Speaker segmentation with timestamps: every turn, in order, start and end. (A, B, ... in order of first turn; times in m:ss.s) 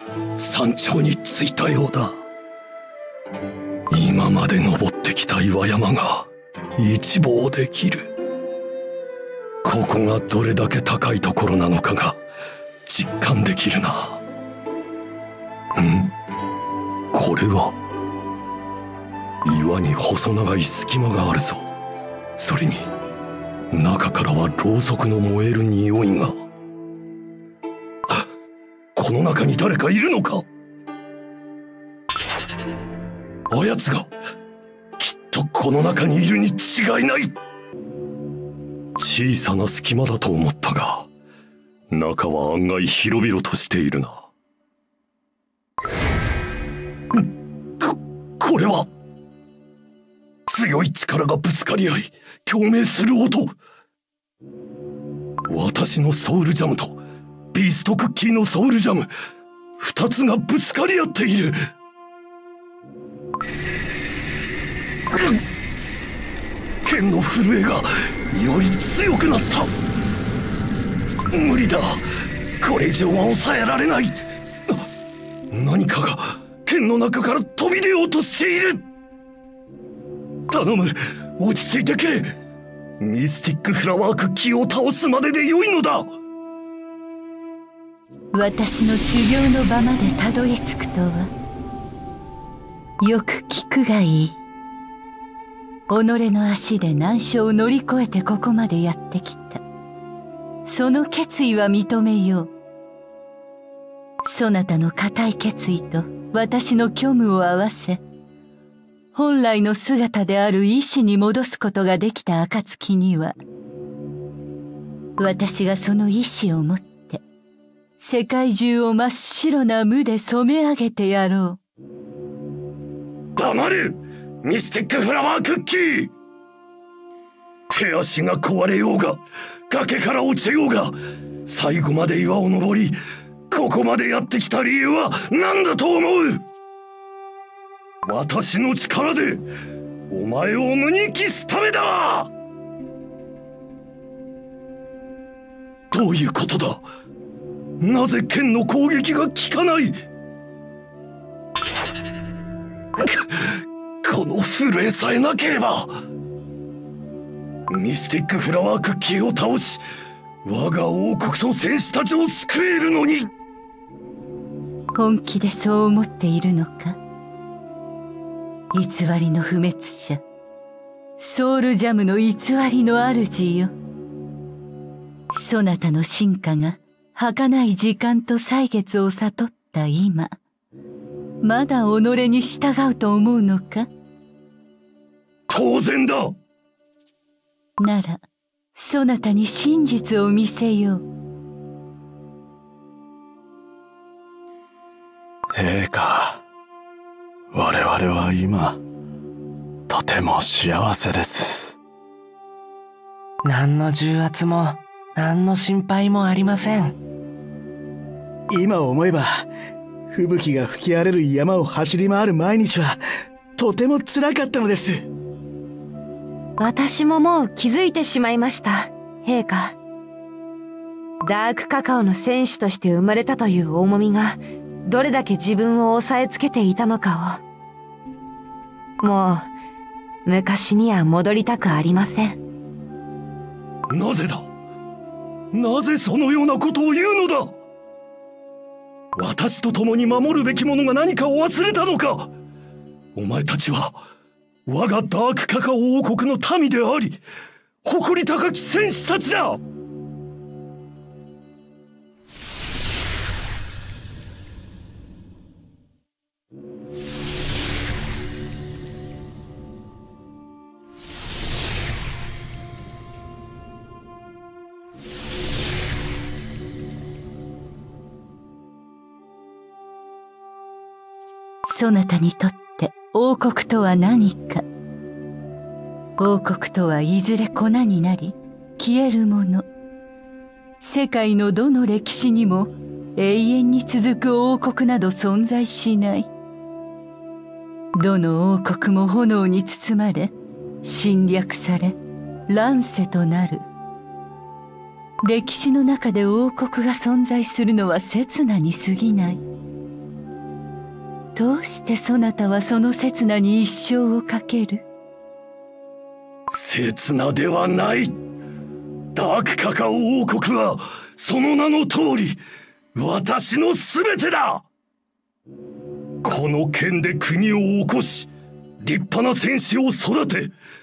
0:00.4-0:02.2 A
0:03.9-0:08.1 A
0:09.6-0:12.2 A
0:12.9-0:14.2 A
0:15.8-0:16.1 A
0:17.1-0:17.7 A
0:19.4-0:21.7 A
0:22.4-0:22.9 A
0:23.7-0:26.4 A
0:29.0-0:30.4 A
0:33.5-0:34.1 A
0:35.0-0:37.3 A
0:39.0-0:41.1 A
0:41.9-0:44.2 A
0:47.8-0:48.9 A
0:50.5-0:53.5 A
0:55.5-0:57.0 A
0:57.5-0:59.1 A
0:59.8-1:01.6 A
1:06.8-1:09.7 A
1:11.3-1:12.0 A
1:12.6-1:14.2 A
1:15.5-1:18.8 A
1:20.5-1:22.3 A
1:23.0-1:26.1 A
1:28.3-1:31.3 B
1:33.0-1:34.4 B
1:35.9-1:39.6 B
1:40.6-1:42.5 B
1:44.2-1:48.0 B
1:49.1-1:53.3 B
1:55.2-1:57.2 B
1:58.0-2:01.6 B
2:03.4-2:06.1 A
2:07.7-2:13.0 A
2:13.5-2:16.4 A
2:18.0-2:19.4 A
2:20.1-2:22.3 A
2:25.9-2:26.8 A
2:27.8-2:30.0 A
2:33.0-2:33.5 A
2:34.0-2:35.9 A
2:37.7-2:39.8 A
2:40.4-2:43.3 A
2:45.0-2:47.0 B
2:48.7-2:50.2 B
2:51.2-2:53.7 B
2:55.3-3:00.4 B
3:01.4-3:03.9 B
3:05.5-3:06.3 A
3:07.8-3:08.2 B
3:08.8-3:11.0 B
3:15.5-3:16.4 C
3:17.5-3:18.8 C
3:19.9-3:21.7 C
3:23.4-3:27.0 D
3:28.5-3:29.5 E
3:30.1-3:33.0 E
3:33.6-3:35.0 E
3:36.6-3:39.7 F
3:41.2-3:47.4 F
3:49.0-3:49.5 F
3:50.2-3:52.4 F
3:53.9-3:54.5 A
3:55.5-3:57.5 A
3:59.2-4:02.3 A
4:03.1-4:04.0 A
4:04.6-4:07.2 A
4:07.8-4:09.6 A
4:31.6-4:34.6 B
4:36.2-4:39.6 B
4:40.8-4:46.3 B
4:48.0-4:52.0 B
4:52.5-4:53.6 B
4:55.2-4:59.4 B
5:01.3-5:04.8 B
5:06.5-5:08.2 A
5:09.1-5:12.4 A
5:12.9-5:14.6 A
5:16.2-5:18.3 A
5:18.8-5:20.5 A